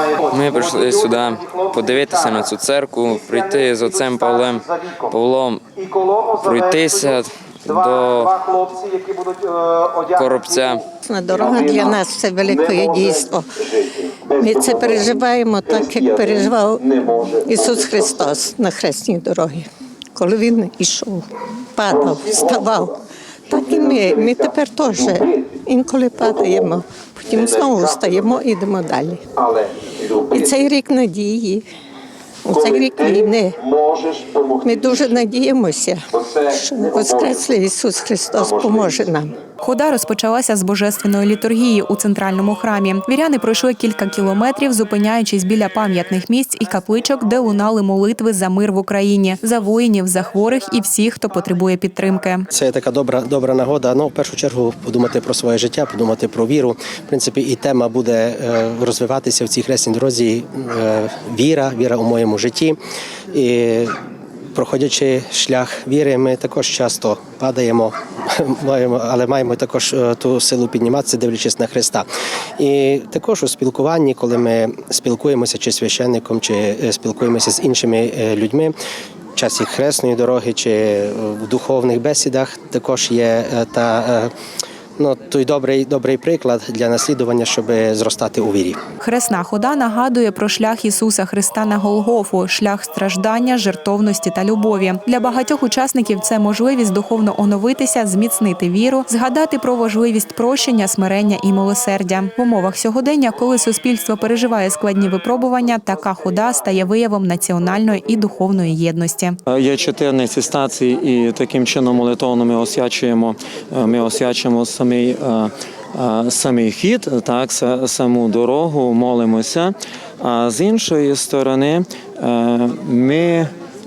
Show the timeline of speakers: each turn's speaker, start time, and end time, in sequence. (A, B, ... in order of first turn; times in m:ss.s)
0:00.3-0:05.7 A
0:06.4-0:08.4 A
0:10.1-0:10.9 A
0:11.1-0:13.5 B
0:14.4-0:22.9 B
0:23.5-0:29.2 B
0:30.3-0:31.7 B
0:32.4-0:33.6 B
0:34.6-0:39.4 B
0:39.6-0:52.4 C
0:52.5-1:02.8 D
1:03.3-1:03.9 D
1:04.5-1:12.1 D
1:12.6-1:18.7 D
1:19.4-1:24.3 D
1:25.0-1:28.8 D
1:29.0-1:49.4 C
1:49.5-2:03.5 E